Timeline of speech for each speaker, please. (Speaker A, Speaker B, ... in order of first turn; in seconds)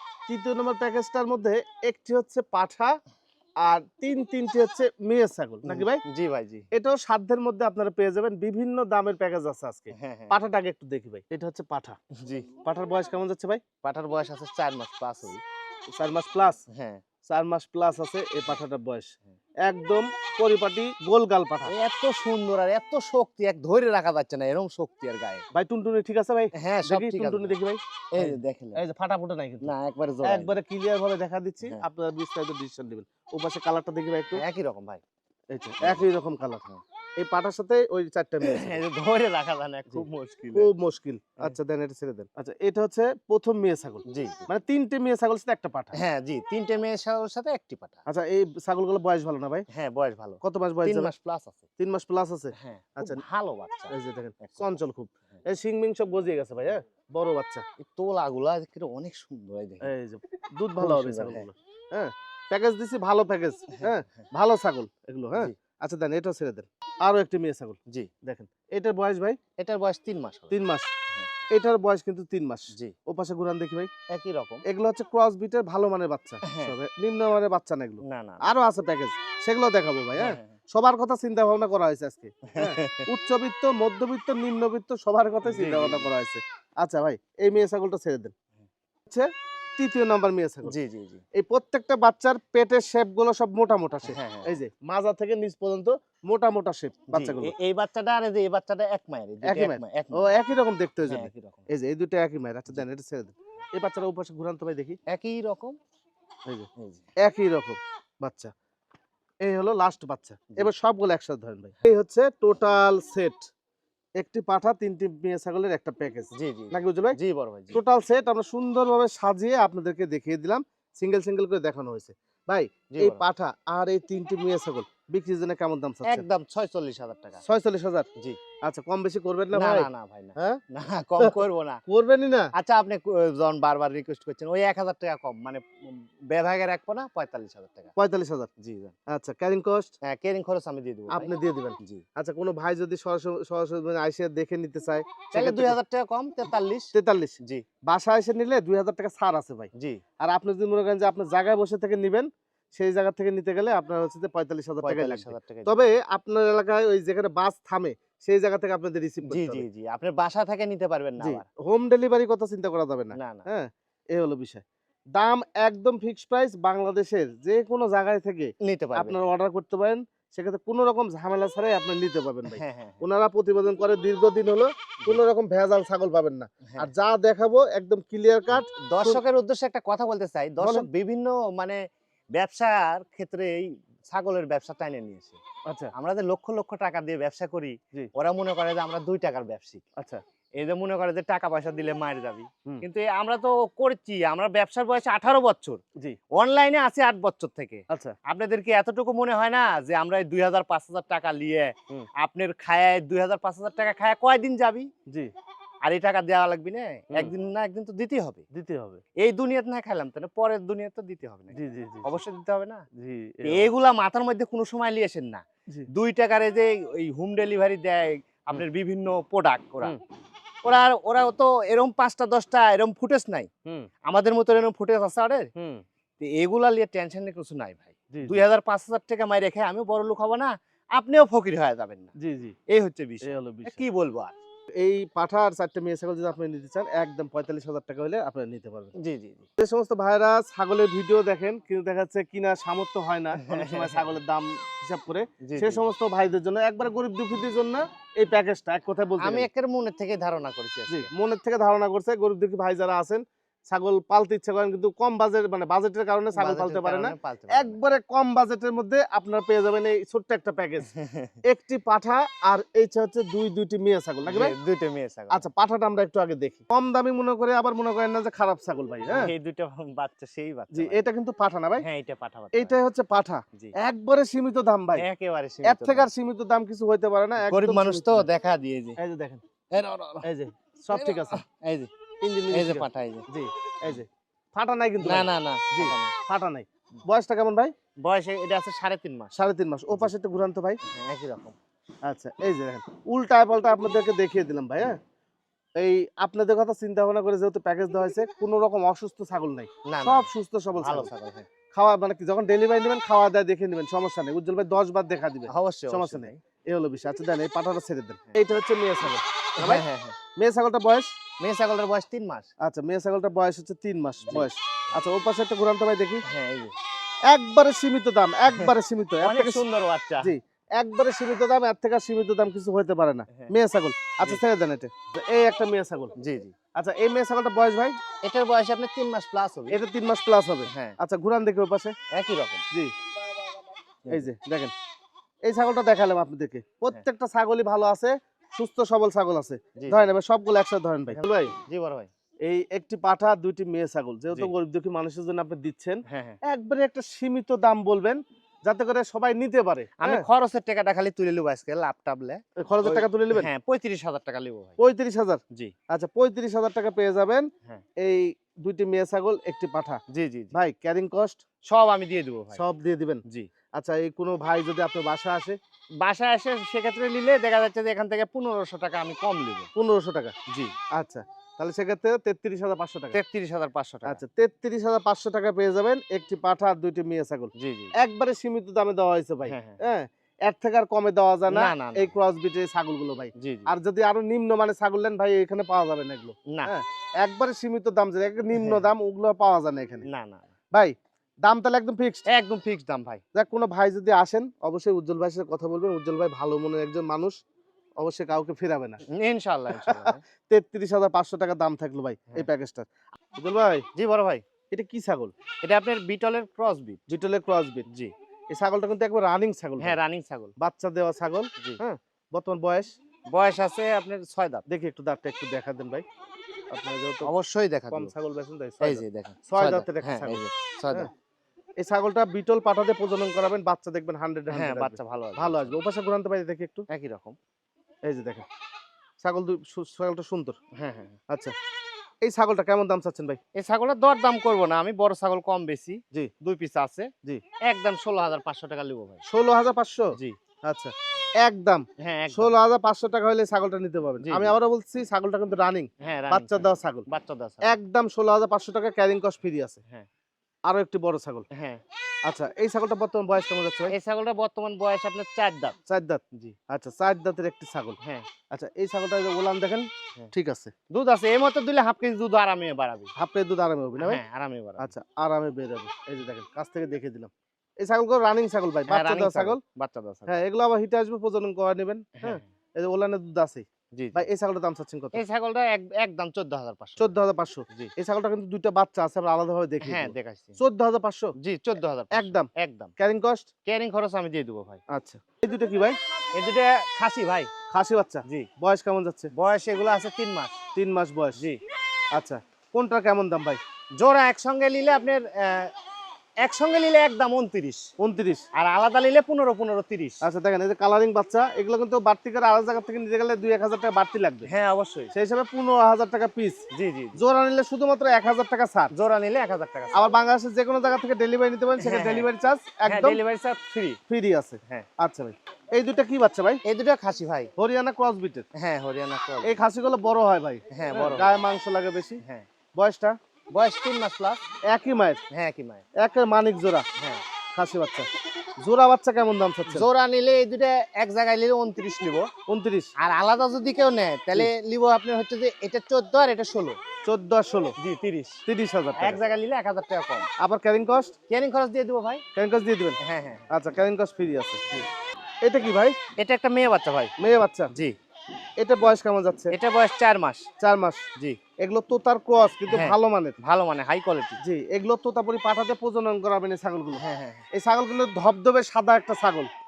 Speaker A: 0.3-3.0, 3.6-6.0, 6.7-12.0, 12.6-13.6, 15.9-16.6, 17.2-19.1, 19.6-21.7, 25.5-29.7, 30.2-34.4, 35.5-36.6, 37.2-38.8, 39.9-46.0, 48.1-49.7, 50.4-51.1, 51.8-53.2, 53.9-57.6, 59.8-69.4, 70.5-70.9, 71.5-73.9, 74.6-88.3, 89.0-90.7, 91.3-97.5, 99.4-105.0, 107.2-108.5, 109.4-113.5, 114.2-117.2, 117.7-126.2, 127.4-128.1, 128.6-130.6, 131.2-132.5, 138.0-138.5, 139.1-139.9, 141.1-145.8, 146.9-159.6, 161.2-164.6, 165.2-179.2, 180.6-180.9, 185.7-185.9, 197.9-198.2, 208.5-209.0, 211.5-212.2, 212.9-213.7, 225.6-225.8, 228.1-228.4, 232.2-232.6, 233.2-233.8, 234.8-238.9, 239.6-249.5, 250.9-260.9, 261.4-264.6, 265.3-269.3, 270.7-271.9, 272.5-275.1, 275.6-278.3, 279.0-279.4, 280.2-281.4, 282.2-287.7, 289.3-290.8, 292.1-295.0, 295.8-301.1, 301.7-309.8, 310.4-311.1, 312.6-316.2, 317.3-319.6, 320.2-326.1, 326.8-328.0, 329.7-331.9, 334.1-334.7, 335.4-341.6, 342.4-350.3, 352.6-353.5, 354.8-357.5, 358.0-360.0, 360.5-361.4, 362.5-363.2, 363.8-365.6, 369.8-370.4, 370.9-373.2, 374.1-390.1, 391.4-392.3, 393.4-397.4, 398.0-399.0, 399.8-403.9, 404.7-405.3, 407.1-407.9, 408.5-410.0, 410.6-412.9, 414.7-416.0, 416.7-417.3, 417.9-421.1, 421.8-426.9, 428.1-428.5, 429.2-430.6, 431.3-431.5, 432.2-433.4, 439.3-440.1, 440.7-447.1, 447.6-449.8, 450.7-451.5, 452.3-453.9, 455.9-458.0, 458.5-460.7, 463.2-464.2, 464.8-469.6, 470.3-475.2, 477.0-481.3, 482.1-483.5, 484.9-486.0, 487.7-489.3, 490.8-491.4, 492.2-493.6, 498.0-498.4, 500.2-504.5, 505.1-508.9, 509.9-513.2, 514.1-516.6, 517.6-518.5, 519.4-522.2, 522.8-523.2, 524.7-525.2, 526.0-526.9, 527.5-528.1, 528.6-529.9, 532.5-532.9, 537.0-537.8, 538.5-539.2, 540.4-541.1, 542.4-543.0, 543.5-544.9, 545.4-546.0, 547.2-547.7, 548.6-549.5, 550.6-551.0, 551.6-553.4, 554.4-559.5
Speaker B: 5.7-6.7, 9.9-10.3, 12.2-12.5, 13.8-15.4, 16.7-17.0, 21.7-25.4, 26.6-27.6, 28.1-28.8, 29.6-30.6, 34.3-35.0, 35.8-36.1, 38.4-40.7, 44.0-44.5, 45.9-48.0, 49.7-51.6, 52.5-54.7, 57.8-59.9, 60.8-61.5, 63.8-64.2, 69.6-70.6, 74.1-74.6, 76.5-76.7, 78.0-78.5, 80.2-80.5, 82.5-83.1, 85.5-86.1, 90.7-91.2, 94.0-94.5, 97.1-100.3, 101.0-101.7, 105.1-105.8, 106.8-107.1, 116.3-117.8, 122.9-123.2, 126.0-127.4, 129.5-131.8, 132.6-137.9, 138.6-138.9, 140.0-142.0, 145.3-146.9, 149.8-150.0, 154.8-155.8, 159.2-161.5, 163.2-163.5, 168.6-169.2, 172.5-173.0, 178.5-181.8, 182.3-185.4, 185.9-189.8, 190.6-195.8, 196.3-204.9, 205.8-208.4, 209.2-212.8, 213.4-220.0, 220.6-223.5, 224.0-225.5, 226.2-232.1, 232.7-234.3, 239.0-239.5, 243.3-244.1, 245.4-245.8, 249.2-251.1, 256.3-257.8, 260.9-261.4, 264.3-265.4, 269.1-271.0, 271.8-272.8, 275.0-276.1, 277.5-279.0, 279.7-280.3, 280.9-281.9, 282.5-283.3, 285.0-286.1, 288.0-289.3, 290.8-291.6, 299.9-301.5, 305.5-306.4, 309.6-310.2, 311.4-312.5, 314.2-314.5, 316.3-316.8, 319.2-320.3, 326.2-326.6, 328.2-329.8, 330.7-331.0, 332.1-332.6, 339.8-340.1, 341.1-342.1, 346.1-346.4, 350.0-354.8, 360.1-360.6, 361.7-362.6, 363.3-363.5, 366.0-369.7, 370.5-370.7, 373.1-374.2, 377.6-377.9, 379.5-379.8, 381.5-382.2, 383.4-383.7, 388.5-388.9, 390.1-390.5, 392.3-393.2, 399.1-400.2, 404.0-404.4, 405.6-407.0, 407.9-408.1, 409.8-410.5, 413.3-414.6, 417.2-418.1, 418.8-421.1, 424.5-425.8, 426.9-427.4, 430.8-431.2, 433.6-437.1, 437.6-439.2, 442.0-442.6, 444.3-444.6, 446.0-447.7, 451.5-451.8, 453.9-455.8, 458.0-458.3, 460.9-463.1, 464.0-464.9, 468.9-470.4, 472.2-472.5, 474.0-474.3, 475.1-477.1, 479.8-480.6, 481.4-482.9, 483.7-484.8, 486.4-487.5, 489.3-490.6, 493.9-495.7, 496.4-497.9, 498.6-500.2, 504.5-505.1, 506.7-507.2, 508.9-510.1, 511.8-512.3, 512.9-514.0, 516.6-517.5, 518.5-519.6, 520.7-521.4, 523.5-524.4, 525.3-525.9, 527.0-527.2, 529.7-532.3, 533.0-536.8, 537.8-538.4, 539.0-540.3, 541.3-542.2, 543.0-543.5, 546.2-547.1, 549.5-550.5, 552.7-554.4, 557.0-557.5